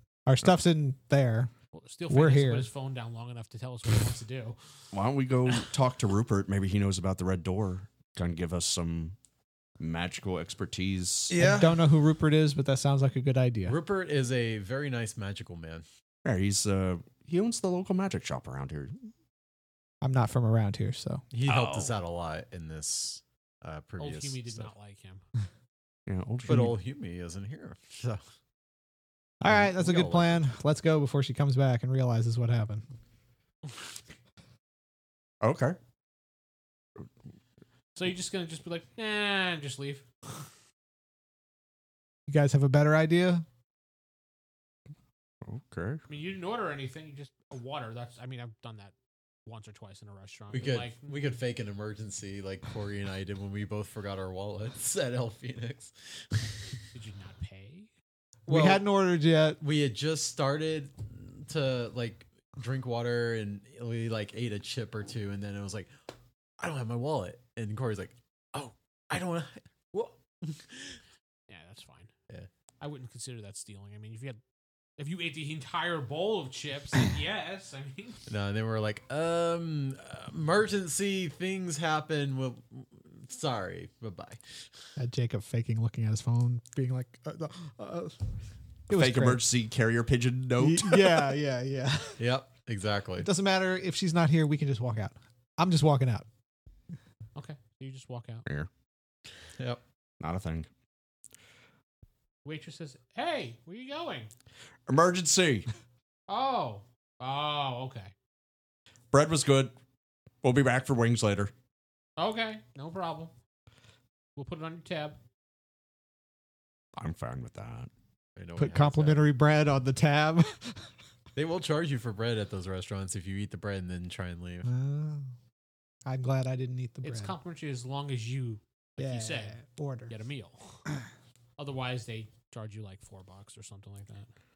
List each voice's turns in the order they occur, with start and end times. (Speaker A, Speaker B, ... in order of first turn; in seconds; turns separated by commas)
Speaker A: 0.3-1.5, Speaker B: 1.7-4.6, Speaker A: 2.1-2.7, Speaker C: 4.9-9.2, Speaker C: 9.8-11.6, Speaker D: 11.3-11.9, Speaker A: 11.4-13.8, Speaker D: 13.7-15.8, Speaker C: 16.2-19.0, Speaker A: 20.0-21.2, Speaker D: 21.3-24.7, Speaker C: 21.5-21.9, Speaker B: 24.0-25.3, Speaker C: 26.1-26.8, Speaker D: 26.4-28.2, Speaker A: 29.4-32.9, Speaker D: 29.4-30.4, Speaker C: 35.4-35.8, Speaker B: 38.0-40.1, Speaker A: 42.3-43.5, Speaker C: 45.4-46.0, Speaker B: 46.1-49.0, Speaker B: 49.5-51.2, Speaker D: 50.5-56.7, Speaker B: 56.9-57.9, Speaker A: 58.5-59.6, Speaker D: 58.5-58.9, Speaker D: 59.6-65.9, Speaker D: 66.6-70.9, Speaker B: 71.5-72.1, Speaker B: 72.8-74.4, Speaker B: 75.0-78.3, Speaker D: 78.3-84.5, Speaker A: 85.0-88.2, Speaker A: 88.9-89.4, Speaker C: 88.9-91.3, Speaker A: 90.6-92.2, Speaker D: 92.2-93.3, Speaker A: 93.2-96.3, Speaker B: 97.3-98.5, Speaker D: 99.6-99.8, Speaker C: 100.2-100.7, Speaker B: 102.5-104.3, Speaker C: 104.9-105.7, Speaker B: 106.3-108.1, Speaker C: 109.1-109.8, Speaker C: 110.4-111.5, Speaker B: 112.2-113.3, Speaker B: 114.4-115.2, Speaker C: 117.0-117.9, Speaker D: 118.4-119.3, Speaker A: 118.6-120.9, Speaker D: 121.4-124.7, Speaker A: 124.7-125.3, Speaker A: 126.1-127.3, Speaker B: 127.0-130.9, Speaker A: 129.0-130.1, Speaker B: 131.6-134.3